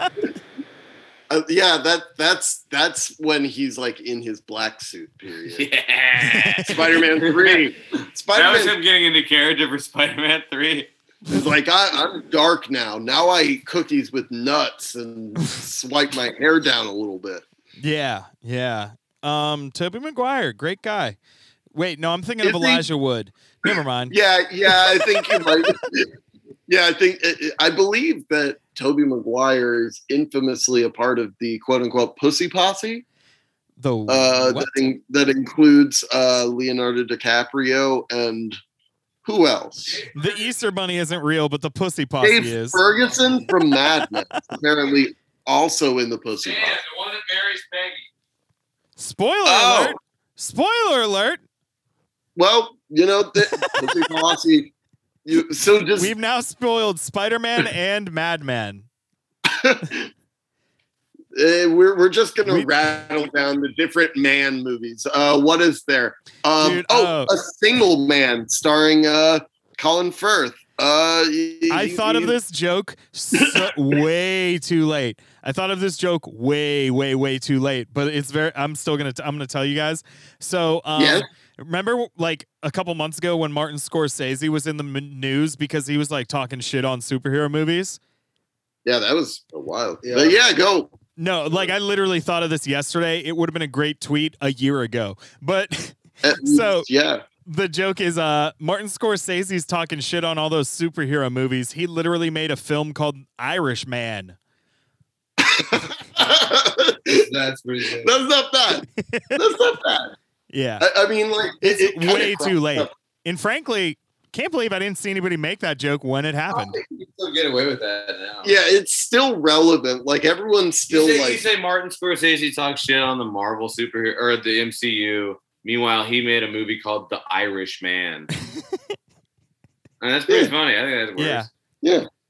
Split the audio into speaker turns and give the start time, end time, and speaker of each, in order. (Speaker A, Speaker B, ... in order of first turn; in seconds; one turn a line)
Speaker A: 1.3-5.7
Speaker B: 5.5-7.7
Speaker C: 6.2-6.7
Speaker A: 6.6-8.8
Speaker B: 8.3-10.9
Speaker A: 11.3-17.4
Speaker C: 17.8-21.2
Speaker C: 21.7-24.1
Speaker A: 22.4-22.9
Speaker A: 23.7-26.1
Speaker A: 26.7-33.0
Speaker C: 33.8-34.7
Speaker A: 34.1-38.6
Speaker A: 39.2-40.0
Speaker B: 39.9-40.5
Speaker C: 40.1-42.8
Speaker A: 42.2-46.8
Speaker B: 46.4-48.1
Speaker C: 49.0-51.4
Speaker A: 49.4-50.0
Speaker A: 52.4-54.7
Speaker A: 55.2-56.1
Speaker C: 56.0-58.9
Speaker A: 59.4-60.1
Speaker A: 61.3-72.3
Speaker C: 66.6-67.3
Speaker C: 71.7-88.0
Speaker A: 73.3-73.7
Speaker A: 81.0-81.2
Speaker A: 88.8-90.9
Speaker B: 90.0-90.4
Speaker C: 91.2-96.9
Speaker A: 96.2-97.2
Speaker C: 97.4-104.3
Speaker A: 105.4-107.3
Speaker B: 107.1-108.1
Speaker A: 108.0-110.1
Speaker C: 109.0-109.4
Speaker C: 110.5-110.9
Speaker A: 110.8-112.9
Speaker C: 111.6-116.8
Speaker B: 116.5-118.5
Speaker A: 118.4-121.4
Speaker B: 120.9-128.3
Speaker B: 130.0-131.5
Speaker A: 130.3-130.5
Speaker C: 131.2-131.5
Speaker A: 131.8-132.1